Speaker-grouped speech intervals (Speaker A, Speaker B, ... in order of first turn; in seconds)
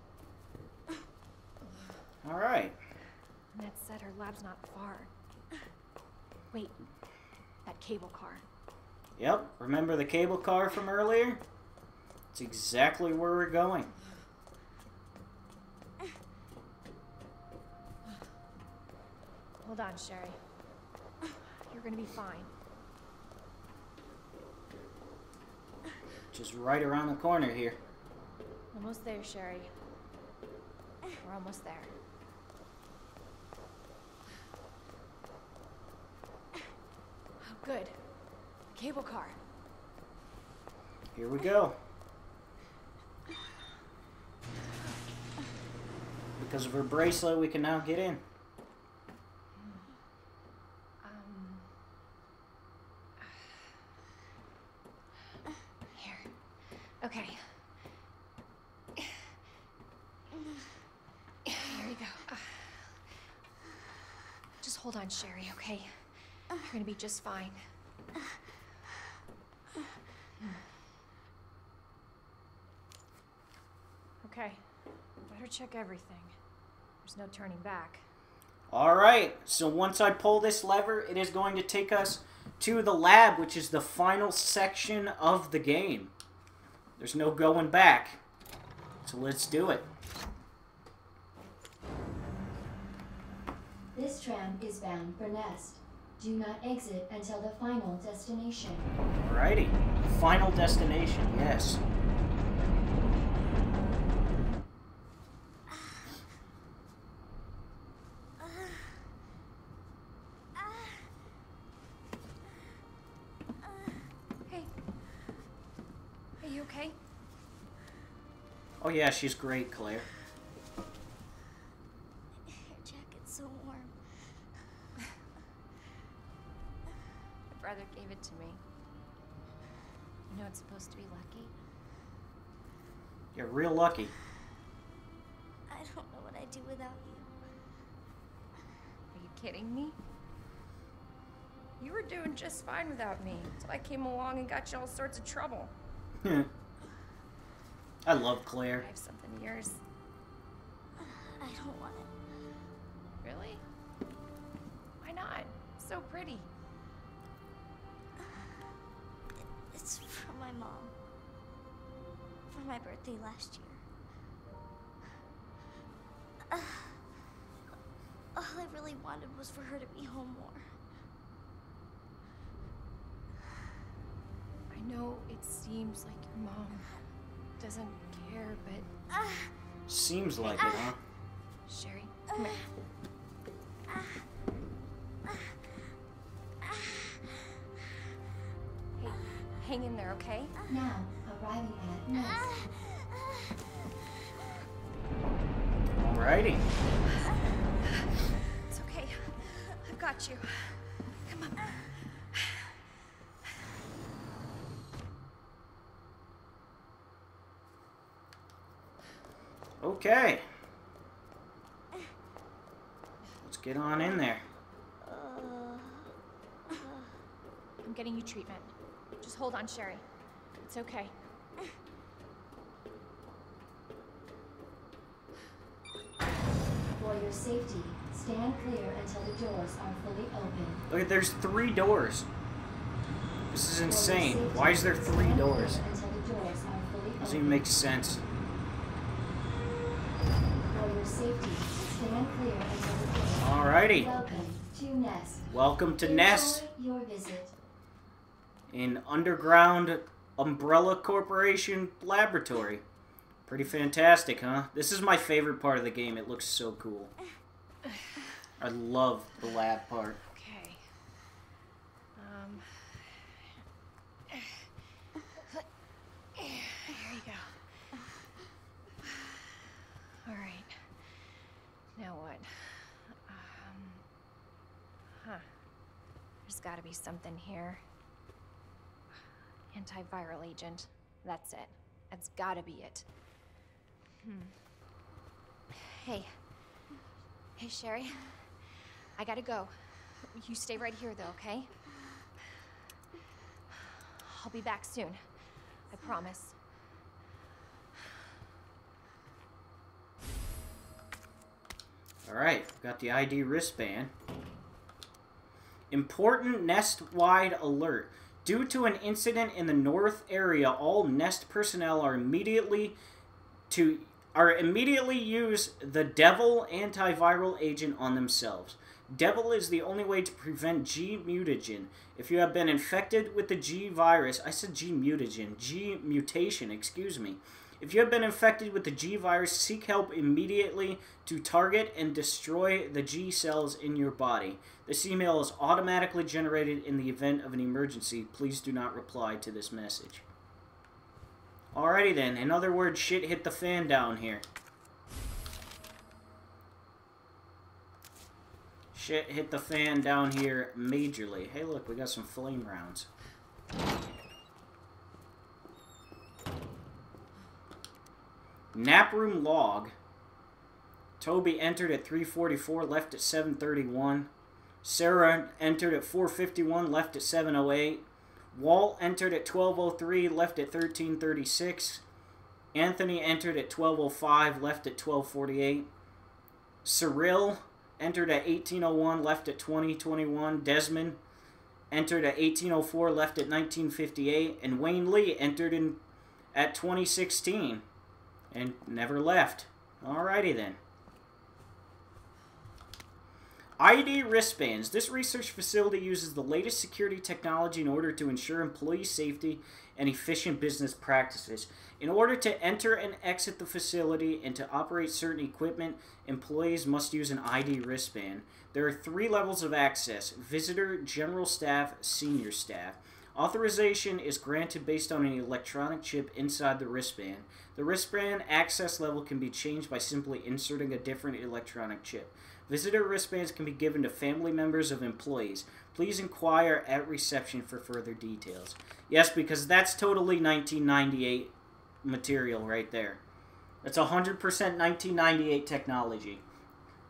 Speaker A: 2.2-2.8, 9.2-11.4, 12.3-13.9, 26.3-27.8, 41.2-41.8, 46.4-48.2, 78.7-86.1, 87.0-88.2, 89.0-89.9, 99.2-101.8, 118.8-120.1, 133.3-134.1, 146.2-146.5, 148.1-148.8, 179.9-181.0, 196.0-196.7, 209.8-210.4, 213.4-214.4, 230.9-232.3, 233.5-235.8, 237.2-238.2, 243.4-244.1, 245.5-246.7, 248.7-252.8, 253.5-257.1, 258.6-260.2, 302.2-304.1, 305.9-313.0, 313.7-340.3, 341.7-344.4, 348.9-353.1, 358.7-359.9, 361.2-364.3, 364.8-372.0, 372.7-375.9, 376.9-381.2, 381.9-386.0, 386.5-387.8, 388.5-390.8, 393.8-433.2, 433.8-436.4
Speaker B: 3.5-5.1, 6.5-6.8, 7.7-8.4, 19.6-20.4, 21.7-22.5, 28.7-29.7, 31.2-31.9, 37.4-38.0, 38.7-39.4, 49.6-49.9, 51.0-51.7, 53.2-53.5, 56.0-57.7, 61.5-62.9, 64.6-67.6, 74.2-74.7, 75.2-76.3, 77.0-78.1, 116.4-117.0, 127.5-128.6, 130.3-131.5, 139.1-140.0, 141.8-145.7, 148.8-149.8, 153.2-153.6, 155.0-156.5, 174.7-176.9, 177.6-178.9, 181.7-182.7, 189.0-190.5, 198.7-202.7, 217.8-220.0, 220.6-221.2, 260.2-260.8, 262.2-263.3, 264.3-264.6, 266.4-267.6, 270.2-270.9, 272.0-274.0, 275.1-275.5, 276.5-277.8, 279.7-283.1, 284.2-284.6, 285.7-286.4, 287.6-291.7, 293.8-295.2, 295.9-296.6
Speaker C: 93.9-98.9, 190.7-192.5, 226.9-230.8, 233.8-237.7, 240.7-245.5, 246.0-247.5
Speaker D: 110.6-111.0, 113.7-114.1, 122.5-124.0, 135.7-137.3, 151.0-152.1, 159.7-160.9, 162.5-163.8, 166.5-167.0, 168.3-170.7, 179.1-179.5, 183.9-184.2, 192.3-193.1, 215.0-216.1, 216.7-217.2